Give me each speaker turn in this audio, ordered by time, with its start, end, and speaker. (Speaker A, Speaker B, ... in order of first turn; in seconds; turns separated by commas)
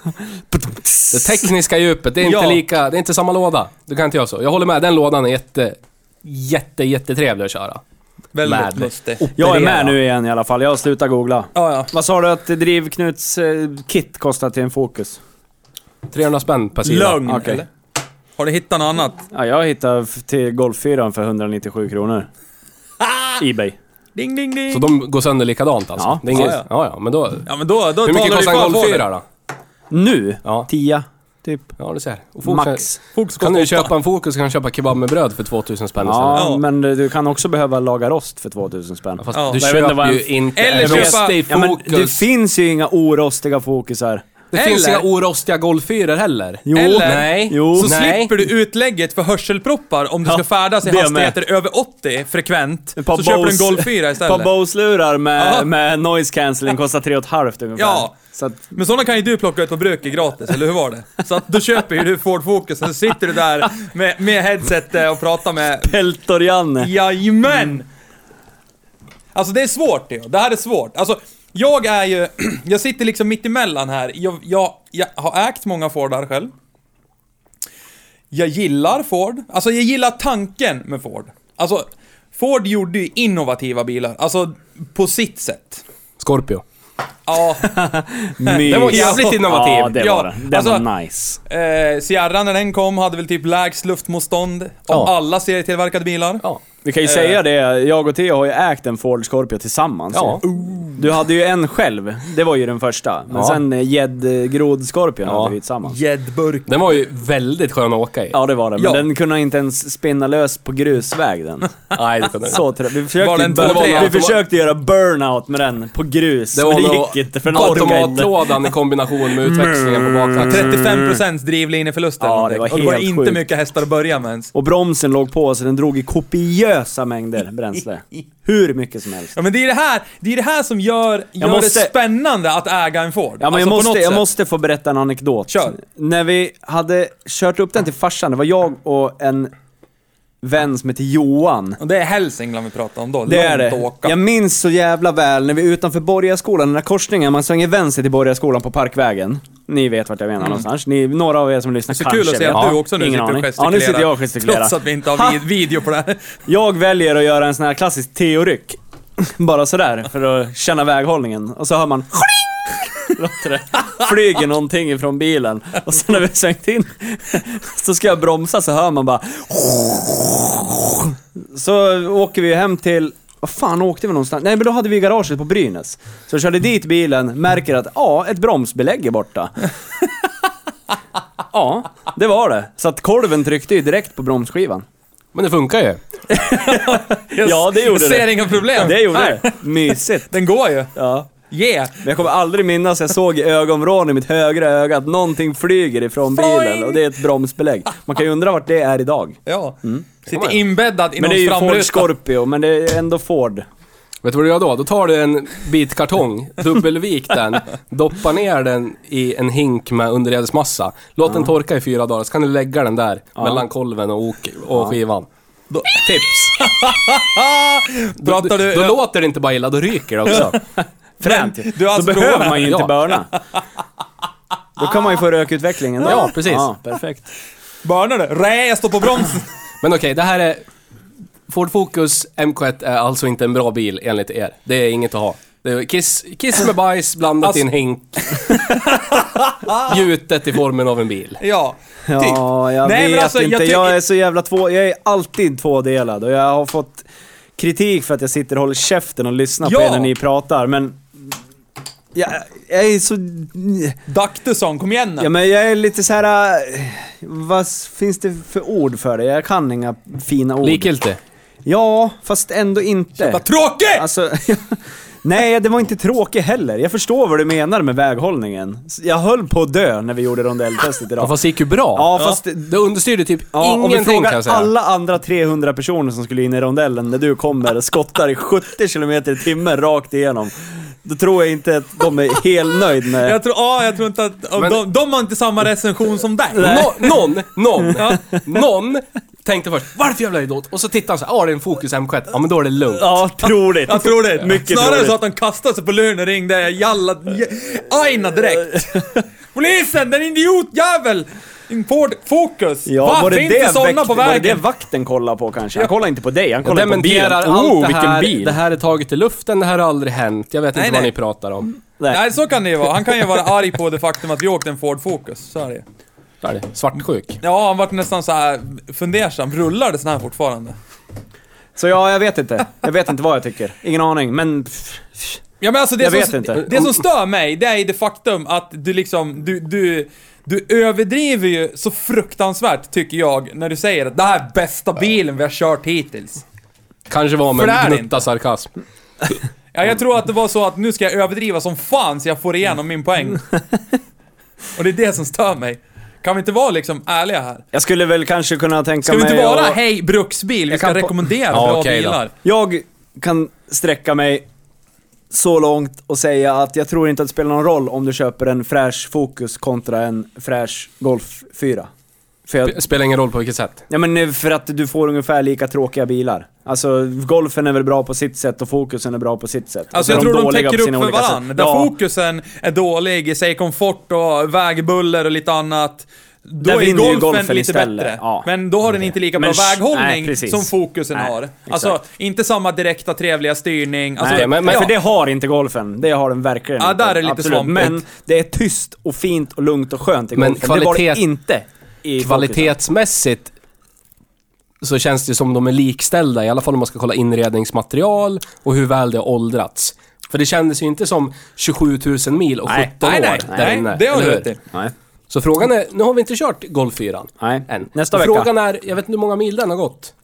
Speaker A: 0.5-1.5, Speaker B: 1.1-7.8, Speaker C: 2.2-2.6, Speaker C: 8.3-9.2, Speaker B: 8.4-10.0, Speaker A: 9.4-15.2, Speaker C: 11.6-11.9, Speaker B: 16.1-17.2, Speaker C: 16.8-17.7, Speaker A: 17.3-17.6, Speaker C: 18.4-19.2, Speaker A: 19.3-22.3, Speaker C: 23.0-23.4, Speaker A: 23.4-23.8, Speaker C: 24.2-24.9, Speaker B: 24.7-27.5, Speaker A: 26.0-26.6, Speaker C: 26.3-26.6, Speaker C: 27.5-29.1, Speaker B: 28.0-29.2, Speaker A: 29.9-31.7, Speaker B: 31.8-32.9, Speaker A: 32.4-33.0, Speaker C: 33.1-33.9, Speaker B: 33.4-36.5, Speaker A: 36.0-45.0, Speaker C: 36.4-36.6, Speaker B: 39.2-42.2, Speaker C: 39.3-39.7, Speaker C: 40.5-41.4, Speaker B: 44.5-48.4, Speaker C: 44.6-45.0, Speaker A: 46.7-47.9, Speaker C: 46.7-54.5, Speaker A: 50.3-51.4, Speaker A: 53.0-58.7, Speaker C: 55.4-55.7, Speaker C: 57.8-58.1, Speaker C: 58.7-65.9, Speaker A: 65.8-66.9, Speaker C: 66.8-67.9, Speaker C: 69.3-76.5, Speaker C: 78.3-85.8, Speaker B: 86.2-86.6, Speaker C: 87.3-87.7, Speaker A: 87.6-91.4, Speaker C: 88.4-89.5, Speaker B: 88.6-90.0, Speaker C: 90.0-90.9, Speaker C: 91.5-96.4, Speaker A: 96.8-100.4, Speaker C: 97.0-97.4, Speaker B: 100.1-100.4, Speaker C: 100.4-101.1, Speaker A: 101.0-106.0, Speaker B: 103.3-103.6, Speaker B: 105.3-105.5, Speaker C: 105.9-106.8, Speaker B: 106.7-108.4, Speaker A: 108.3-111.9, Speaker C: 108.8-109.0, Speaker B: 111.9-112.6, Speaker A: 112.5-118.5, Speaker C: 113.2-114.2, Speaker B: 113.5-114.4, Speaker B: 116.5-120.8, Speaker C: 117.5-118.2, Speaker A: 119.4-121.1, Speaker C: 120.5-124.5, Speaker A: 122.2-123.4, Speaker A: 124.5-129.3, Speaker C: 129.3-134.2, Speaker A: 131.4-131.9, Speaker A: 133.4-139.5, Speaker C: 135.5-135.8, Speaker A: 140.4-141.8, Speaker C: 141.8-144.2, Speaker A: 143.3-155.4, Speaker C: 151.9-156.2, Speaker A: 156.5-179.7, Speaker A: 181.5-184.8, Speaker B: 185.3-186.0, Speaker A: 186.3-190.3, Speaker C: 186.4-189.7, Speaker C: 190.3-192.0, Speaker A: 191.0-191.3, Speaker A: 192.0-200.1, Speaker C: 196.3-197.0, Speaker C: 199.5-202.1, Speaker B: 200.3-200.6, Speaker A: 201.2-203.7, Speaker B: 204.2-215.3, Speaker A: 213.4-213.6, Speaker C: 215.7-219.0, Speaker B: 215.9-216.6, Speaker B: 218.2-220.6, Speaker C: 220.3-220.6, Speaker A: 221.2-223.3, Speaker C: 221.2-222.9, Speaker B: 222.7-222.9, Speaker A: 224.8-227.2, Speaker B: 226.0-226.7, Speaker C: 227.8-229.5, Speaker B: 229.8-230.6, Speaker B: 231.5-238.6, Speaker C: 238.4-240.0, Speaker B: 239.8-241.4, Speaker C: 241.4-244.0, Speaker A: 242.1-247.1, Speaker A: 247.6-251.1, Speaker C: 249.6-250.1, Speaker A: 252.2-254.0, Speaker C: 254.1-255.3, Speaker A: 255.2-260.9, Speaker B: 260.6-261.2, Speaker A: 261.6-263.4, Speaker C: 263.2-264.1, Speaker A: 263.9-271.3, Speaker B: 271.2-274.7, Speaker A: 271.9-272.7, Speaker A: 273.5-283.4, Speaker C: 283.2-287.0, Speaker A: 286.6-287.2, Speaker B: 286.6-293.2, Speaker C: 287.9-288.4, Speaker A: 293.0-295.2, Speaker C: 293.4-304.6, Speaker A: 302.9-308.6, Speaker B: 306.6-311.7, Speaker C: 310.7-311.1, Speaker C: 312.1-315.8, Speaker B: 316.4-317.4, Speaker C: 317.4-320.8, Speaker A: 321.8-325.4, Speaker C: 325.6-336.4, Speaker A: 326.0-326.9, Speaker B: 337.1-338.7, Speaker C: 337.5-338.2, Speaker C: 339.7-343.4, Speaker C: 344.8-347.6, Speaker A: 347.7-349.8, Speaker C: 349.1-352.3, Speaker A: 350.7-351.1, Speaker B: 351.5-352.2, Speaker A: 352.4-354.4, Speaker A: 355.3-361.9, Speaker A: 362.5-362.8, Speaker B: 362.6-363.8, Speaker A: 363.9-371.9, Speaker C: 369.9-384.9, Speaker A: 376.6-378.5, Speaker A: 379.4-382.0, Speaker A: 384.2-392.7, Speaker B: 384.3-384.9, Speaker C: 386.8-388.0, Speaker B: 390.4-391.2, Speaker B: 392.2-393.5, Speaker B: 394.8-404.5, Speaker A: 402.7-403.6, Speaker C: 403.0-404.6, Speaker B: 405.3-410.1, Speaker A: 407.4-408.5